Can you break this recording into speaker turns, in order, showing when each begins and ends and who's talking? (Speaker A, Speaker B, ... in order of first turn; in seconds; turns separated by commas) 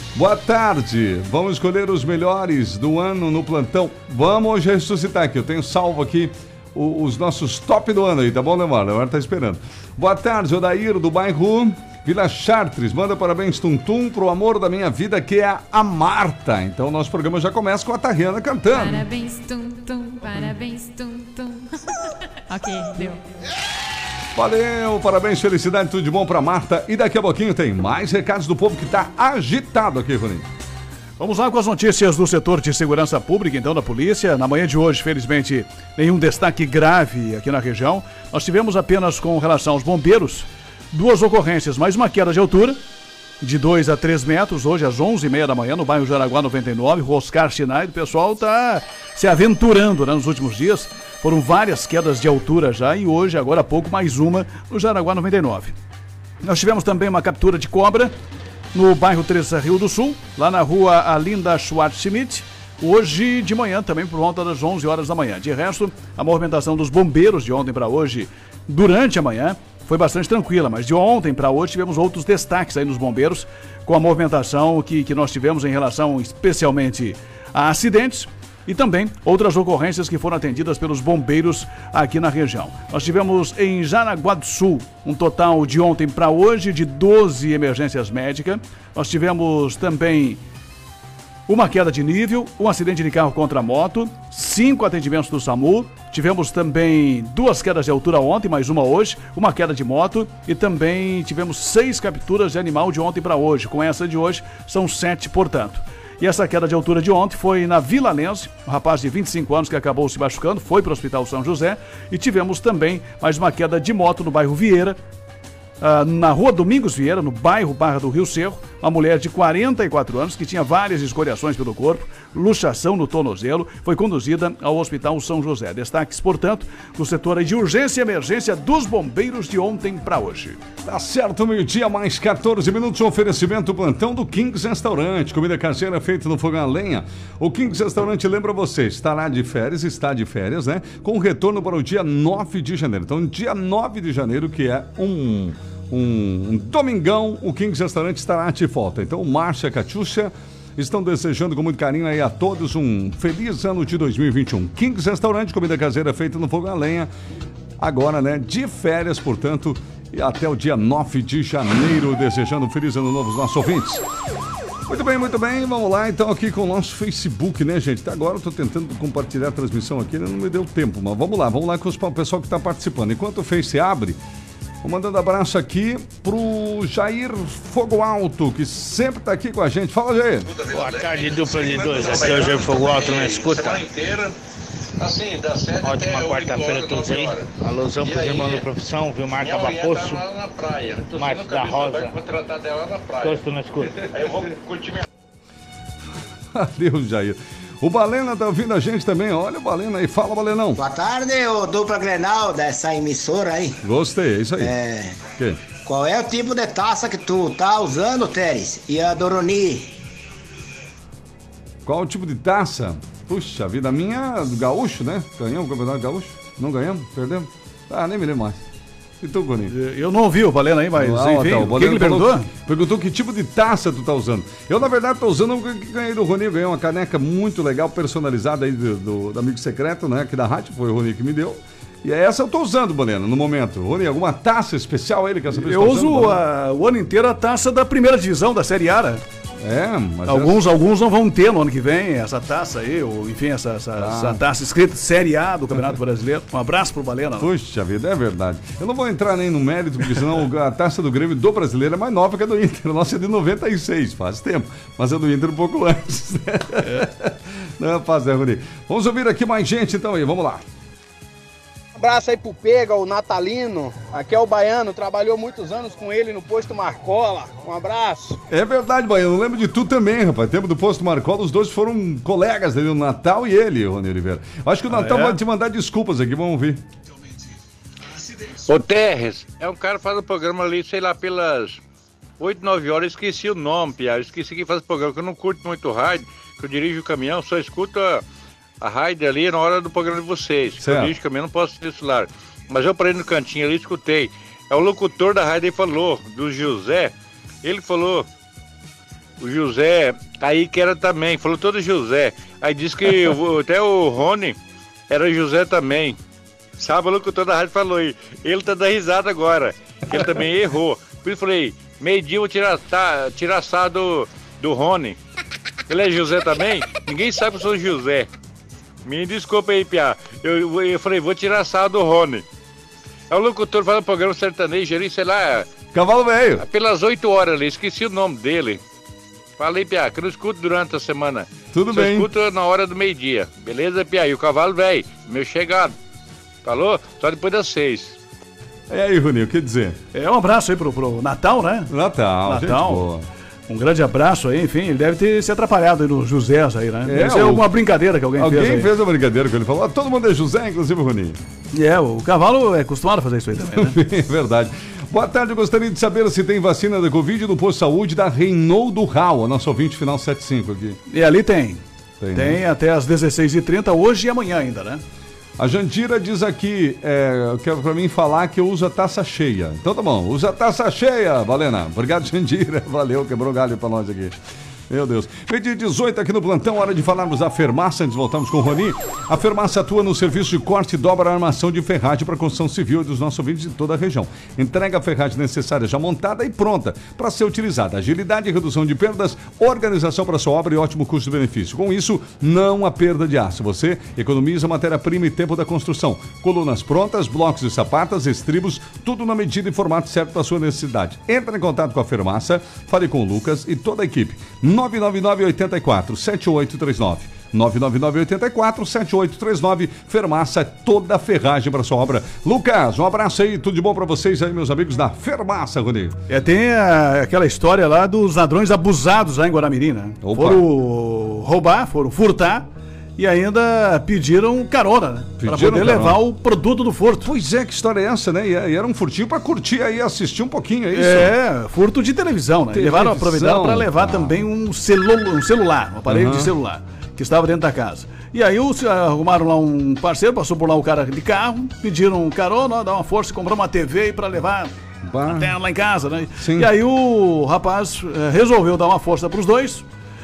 Speaker A: 0.1-19.1, Speaker B: 18.7-23.2, Speaker A: 24.4-30.5, Speaker C: 31.2-42.8, Speaker C: 43.4-55.8, Speaker C: 56.4-58.1, Speaker C: 58.7-90.4, Speaker C: 91.5-115.0, Speaker C: 115.8-130.6, Speaker A: 130.8-157.1, Speaker A: 157.8-164.0, Speaker A: 164.9-174.2, Speaker A: 174.8-180.5, Speaker D: 180.5-184.3, Speaker E: 180.7-183.8, Speaker D: 185.0-188.7, Speaker E: 185.8-190.2, Speaker D: 189.4-193.4, Speaker E: 191.0-192.1, Speaker E: 193.2-194.1, Speaker D: 194.0-195.1, Speaker A: 196.5-200.8, Speaker F: 200.8-203.8, Speaker A: 203.8-204.7, Speaker F: 204.6-205.2, Speaker F: 205.8-209.9, Speaker A: 211.8-218.6, Speaker A: 219.2-219.7, Speaker C: 219.7-222.5, Speaker A: 220.9-236.4, Speaker C: 235.5-239.2, Speaker A: 239.6-240.6, Speaker C: 240.3-247.5, Speaker A: 244.0-244.4, Speaker A: 247.4-260.6, Speaker G: 261.9-268.4, Speaker A: 268.5-276.8, Speaker C: 274.9-275.4, Speaker D: 278.6-281.8, Speaker D: 282.4-288.2, Speaker D: 288.8-297.1, Speaker A: 290.8-291.1, Speaker D: 297.6-298.3, Speaker D: 299.4-304.6, Speaker D: 305.1-306.2, Speaker D: 306.8-315.2, Speaker A: 310.1-310.4, Speaker D: 315.9-318.3, Speaker D: 319.1-322.4, Speaker D: 323.3-325.7, Speaker A: 325.9-326.6, Speaker D: 326.6-328.8, Speaker D: 329.6-335.9, Speaker A: 331.7-332.3, Speaker D: 336.6-338.2, Speaker A: 338.9-340.0, Speaker C: 340.1-341.9, Speaker A: 341.9-343.3, Speaker C: 342.4-343.1, Speaker C: 343.7-348.9, Speaker A: 347.1-347.7, Speaker A: 348.4-351.4, Speaker C: 351.7-354.0, Speaker A: 353.6-361.0, Speaker C: 361.1-361.8, Speaker A: 362.2-362.6, Speaker C: 362.3-365.0, Speaker A: 365.6-416.2, Speaker C: 416.3-427.3, Speaker A: 420.2-420.6, Speaker A: 425.4-426.2, Speaker A: 427.2-431.3, Speaker C: 430.9-444.7, Speaker A: 432.7-434.4, Speaker A: 436.1-436.5, Speaker A: 445.1-445.5, Speaker C: 445.2-449.9, Speaker A: 446.4-446.7